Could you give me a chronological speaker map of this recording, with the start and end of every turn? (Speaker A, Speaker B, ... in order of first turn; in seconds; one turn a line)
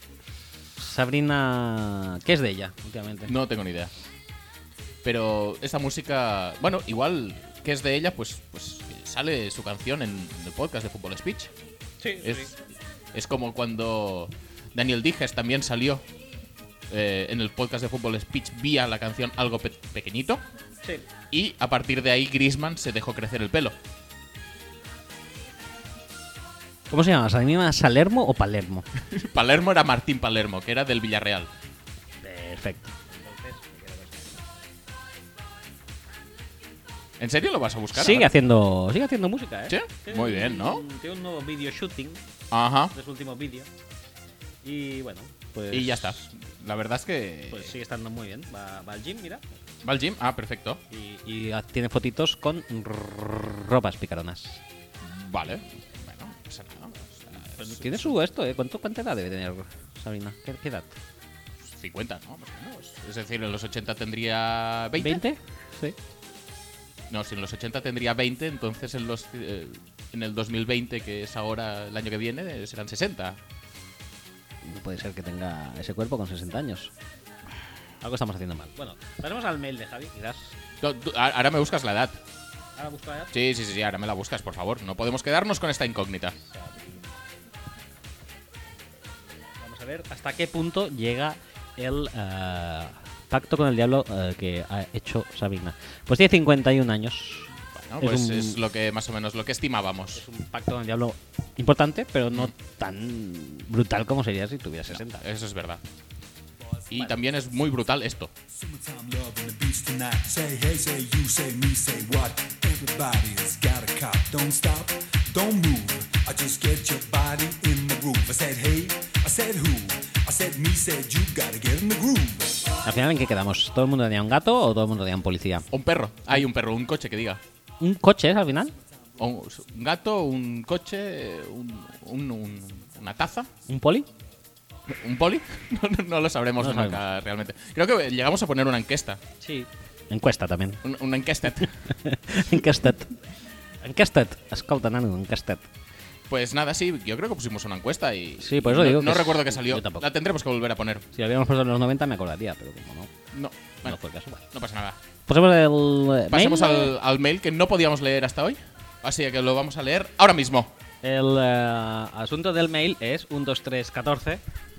Speaker A: 0.8-3.3
Speaker B: 3.3-3.9
Speaker B: 5.0-11.5
Speaker A: 12.0-12.5
Speaker B: 12.2-12.6
Speaker B: 13.1-16.0
Speaker B: 16.9-20.4
Speaker B: 21.3-23.8
Speaker A: 26.9-28.8
Speaker B: 29.1-31.5
Speaker A: 32.2-34.4
Speaker B: 37.2-38.3
Speaker A: 37.9-42.2
Speaker B: 39.7-40.8
Speaker B: 42.5-42.9
Speaker A: 42.9-43.7
Speaker A: 44.6-46.1
Speaker B: 45.7-47.7
Speaker A: 47.5-49.4
Speaker B: 49.8-50.8
Speaker A: 50.9-54.6
Speaker B: 55.0-58.1
Speaker A: 57.6-61.0
Speaker B: 61.7-65.2
Speaker A: 65.0-66.0
Speaker B: 67.1-73.4
Speaker A: 74.6-76.9
Speaker A: 78.0-80.5
Speaker B: 80.8-82.2
Speaker A: 82.8-83.3
Speaker B: 83.3-86.3
Speaker A: 86.5-87.0
Speaker A: 89.6-98.6
Speaker B: 97.8-100.2
Speaker A: 100.1-105.2
Speaker B: 104.9-105.8
Speaker B: 106.9-108.3
Speaker C: 108.5-122.7
Speaker A: 122.8-125.7
Speaker B: 125.7-127.4
Speaker A: 127.8-128.7
Speaker B: 129.2-133.5
Speaker A: 133.7-134.1
Speaker B: 134.9-139.2
Speaker A: 136.6-137.0
Speaker A: 139.4-140.8
Speaker B: 140.8-141.7
Speaker A: 141.9-143.1
Speaker A: 143.8-145.7
Speaker B: 146.3-151.0
Speaker A: 148.4-150.1
Speaker A: 151.1-153.1
Speaker B: 153.3-154.0
Speaker A: 153.8-154.4
Speaker B: 154.5-155.0
Speaker A: 155.3-156.9
Speaker B: 156.3-160.7
Speaker A: 161.0-164.4